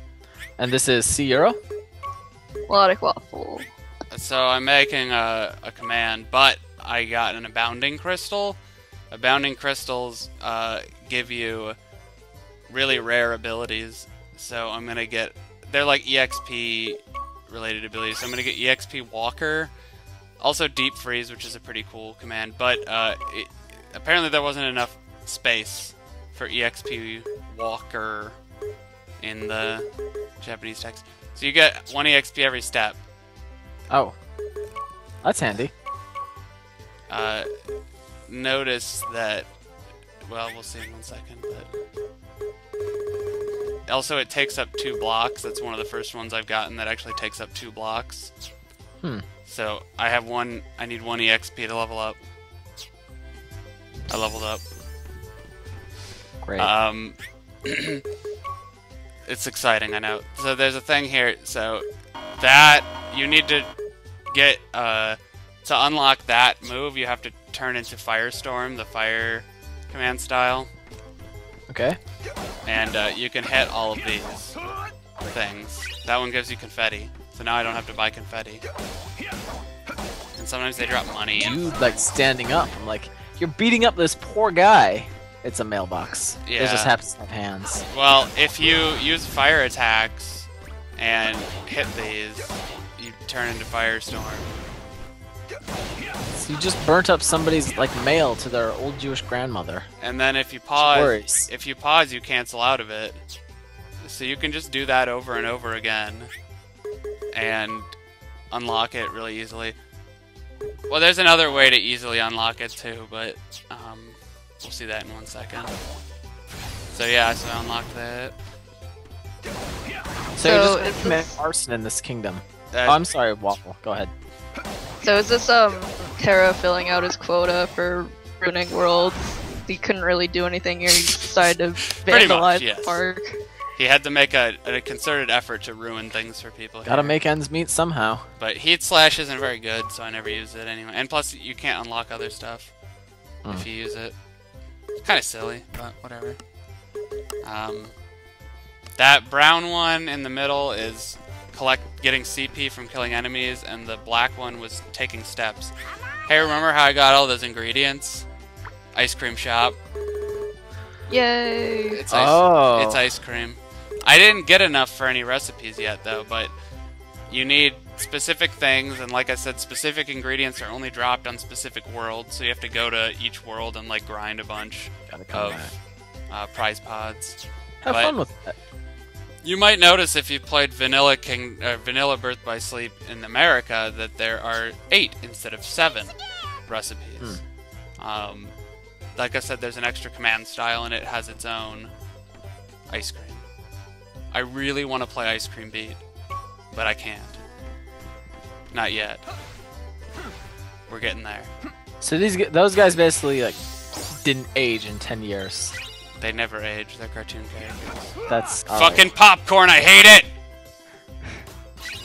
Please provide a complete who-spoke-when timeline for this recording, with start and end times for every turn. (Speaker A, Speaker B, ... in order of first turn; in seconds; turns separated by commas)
Speaker A: 0.6-1.6, Speaker B: 2.7-3.6, Speaker C: 4.1-8.6, Speaker C: 9.1-11.8, Speaker C: 12.7-19.7, Speaker C: 20.4-28.4, Speaker C: 29.2-29.9, Speaker C: 30.4-33.0, Speaker A: 33.9-34.1, Speaker A: 35.2-35.7, Speaker C: 37.1-37.5, Speaker C: 38.3-39.5, Speaker C: 40.3-41.7, Speaker C: 43.9-48.3, Speaker C: 49.5-52.2, Speaker C: 54.1-54.6, Speaker A: 56.4-56.7, Speaker C: 56.6-58.0, Speaker C: 59.2-61.8, Speaker C: 62.4-63.7, Speaker C: 64.3-70.7, Speaker A: 71.7-72.0, Speaker C: 72.6-74.6, Speaker C: 75.2-78.6, Speaker C: 80.3-82.1, Speaker A: 81.3-87.8, Speaker C: 86.4-86.9, Speaker C: 87.9-94.5, Speaker A: 96.3-99.9, Speaker C: 100.0-103.2, Speaker A: 100.8-101.5, Speaker C: 104.0-106.3, Speaker C: 107.3-107.9, Speaker C: 108.5-109.8, Speaker C: 110.9-115.7, Speaker C: 116.9-118.3, Speaker A: 120.4-124.1, Speaker B: 120.4-121.4, Speaker C: 122.7-123.1, Speaker B: 125.0-133.4, Speaker C: 131.9-133.0, Speaker C: 133.8-137.2, Speaker A: 136.8-138.2, Speaker C: 138.4-142.7, Speaker C: 143.5-144.2, Speaker C: 145.0-146.4, Speaker C: 147.4-147.9, Speaker C: 149.0-155.7, Speaker C: 156.2-158.3, Speaker C: 158.9-159.8, Speaker B: 161.1-162.0, Speaker C: 161.9-166.5, Speaker A: 162.1-163.1, Speaker C: 167.3-175.7, Speaker A: 175.1-175.7, Speaker C: 176.3-178.2, Speaker A: 177.8-178.5, Speaker C: 179.4-186.2, Speaker C: 186.7-187.4, Speaker C: 188.0-188.5, Speaker C: 189.2-191.9, Speaker C: 192.9-193.5, Speaker C: 194.3-196.0, Speaker C: 196.7-197.4, Speaker C: 198.7-199.2, Speaker C: 200.9-201.5, Speaker A: 202.0-205.8, Speaker C: 206.2-208.2, Speaker A: 208.3-209.1, Speaker C: 208.7-210.3